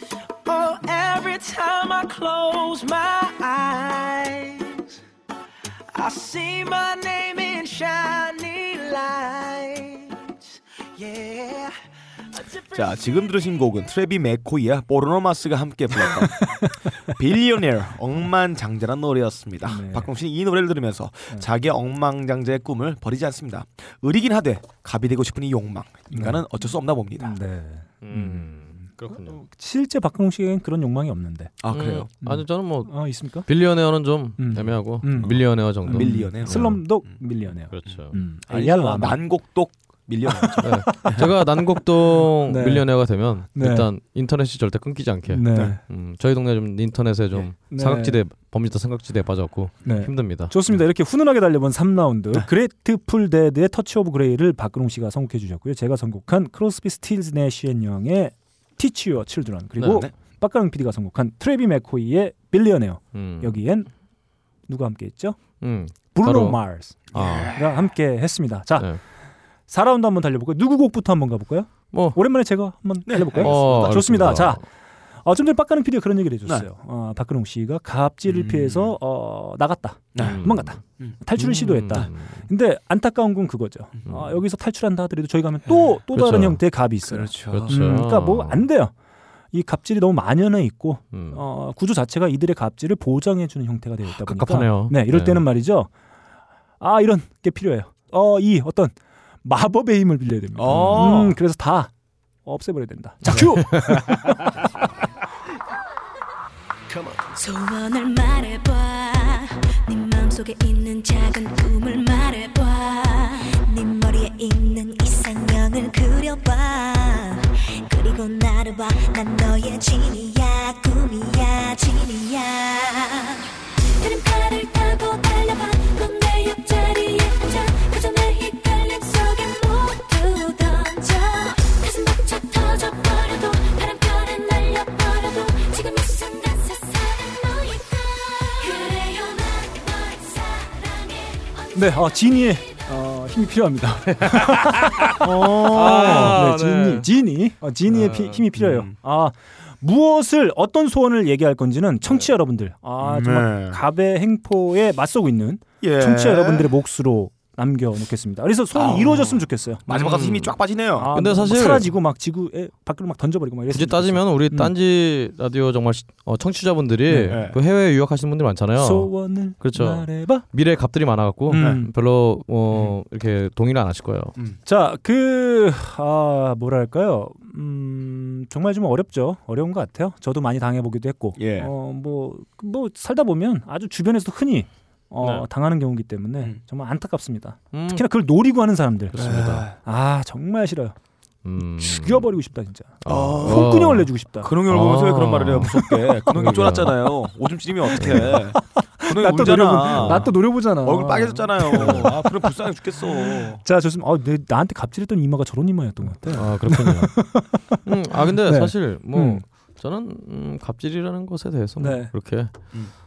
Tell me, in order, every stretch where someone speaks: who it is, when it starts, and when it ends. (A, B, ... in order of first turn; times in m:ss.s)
0:00.5-0:05.0 A
0:05.9-0:11.8 A
0:12.3-0:13.2 A
0:12.7-0:27.4 B
0:16.1-0:16.8 C
0:19.7-0:20.1 C
0:26.1-0:26.4 C
0:27.2-0:28.5 C
0:28.0-0:29.4 D
0:29.1-0:31.5 C
0:31.6-0:32.1 B
0:31.7-0:36.8 D
0:32.2-0:33.5 C
0:34.4-0:39.2 C
0:35.2-0:37.2 B
0:37.7-0:38.2 D
0:38.5-0:41.3 B
0:40.3-0:41.1 C
0:40.6-0:50.6 D
0:42.4-0:42.9 C
0:43.6-0:43.9 C
0:45.3-0:45.8 C
0:47.7-0:48.2 C
0:49.8-1:03.9 C
0:59.8-1:00.0 D
1:03.1-1:03.6 D
1:04.7-1:05.4 C
1:05.6-1:06.6 D
1:06.1-1:08.9 C
1:07.1-1:07.5 D
1:07.1-1:07.8 B
1:09.7-1:14.6 C
1:11.9-1:12.2 D
1:13.1-1:14.3 B
1:13.4-1:14.6 D
1:15.2-1:28.9 C
1:18.3-1:18.9 B
1:20.2-1:20.4 B
1:20.2-1:20.8 D
1:21.4-1:22.4 D
1:24.1-1:24.3 D
1:26.1-1:26.6 D
1:27.1-1:28.0 B
1:27.5-1:28.6 D
1:29.5-1:35.9 C
1:31.1-1:31.4 D
1:34.1-1:35.4 D
1:36.8-1:41.9 C
1:40.6-1:41.4 B
1:40.7-1:41.1 D
1:42.4-1:44.6 C
1:47.3-2:21.8 E
2:21.8-2:39.8 C
2:24.3-2:27.1 D
2:25.4-2:26.4 B
2:27.9-2:28.4 D
2:28.6-2:28.9 B
2:33.0-2:33.8 B
2:35.8-2:36.7 B
2:38.7-2:41.1 B
2:39.9-2:40.6 D
2:41.0-2:44.7 C
2:41.1-2:41.9 D
2:43.7-2:54.3 D
2:47.1-2:47.4 C
2:47.3-2:47.6 B
2:48.8-2:50.4 C
2:51.5-2:51.9 C
2:51.5-2:51.8 B
2:54.7-3:11.0 C
3:01.4-3:01.7 B
3:05.2-3:05.5 D
3:07.7-3:08.0 D
3:09.1-3:09.7 D
3:09.2-3:09.8 B
3:11.4-3:12.3 D
3:11.8-3:14.5 C
3:13.0-3:14.1 D
3:13.1-3:13.7 B
3:14.4-3:23.6 B
3:14.7-3:15.8 D
3:16.3-3:17.0 D
3:18.0-3:27.8 C
3:18.0-3:18.4 D
3:19.9-3:20.3 D
3:21.7-3:22.0 D
3:26.3-3:27.3 D
3:27.8-3:32.7 D
3:28.4-3:29.4 C
3:31.8-3:32.1 C